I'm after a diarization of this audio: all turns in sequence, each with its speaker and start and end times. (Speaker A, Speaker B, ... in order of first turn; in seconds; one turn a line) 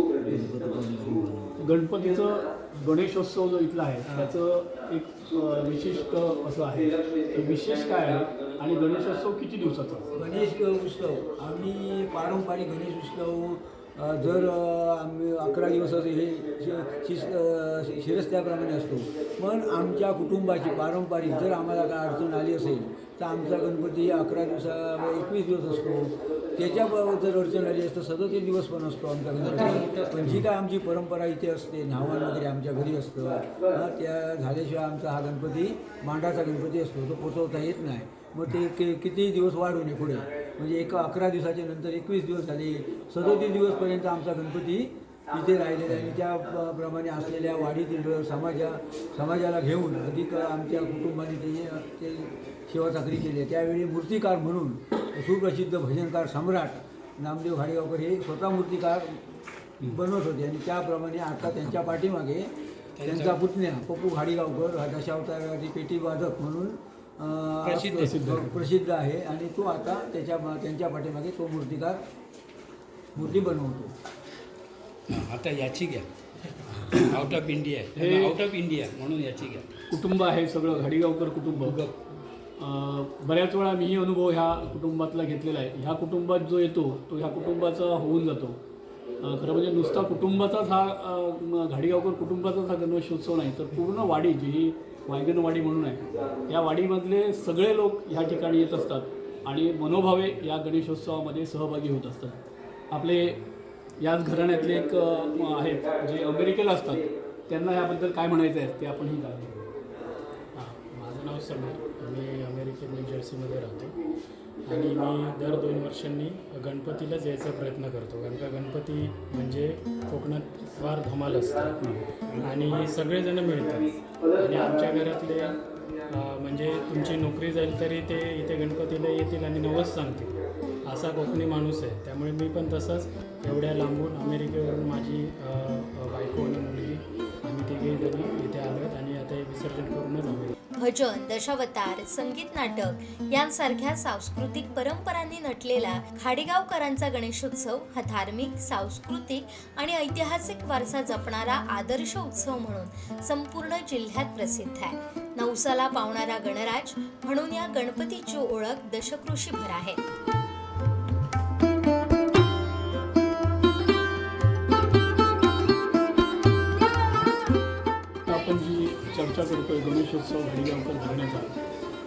Speaker A: 0.2-1.5
Speaker B: 1.6-10.1
Speaker A: 10.1-59.2
Speaker A: 59.8-62.5
Speaker C: 63.0-63.3
Speaker A: 63.0-72.0
Speaker C: 67.6-68.2
Speaker B: 68.0-68.4
Speaker A: 73.1-73.9
Speaker C: 75.1-76.0
Speaker C: 76.7-79.7
Speaker B: 77.9-78.3
Speaker B: 79.9-81.8
Speaker C: 81.6-81.9
Speaker B: 82.6-88.6
Speaker B: 89.2-102.4
Speaker B: 102.9-103.4
Speaker B: 104.0-109.6
Speaker D: 110.5-114.0
Speaker D: 114.6-121.8
Speaker B: 121.8-122.0
Speaker D: 122.4-140.5
Speaker E: 140.8-160.0
Speaker B: 168.3-171.5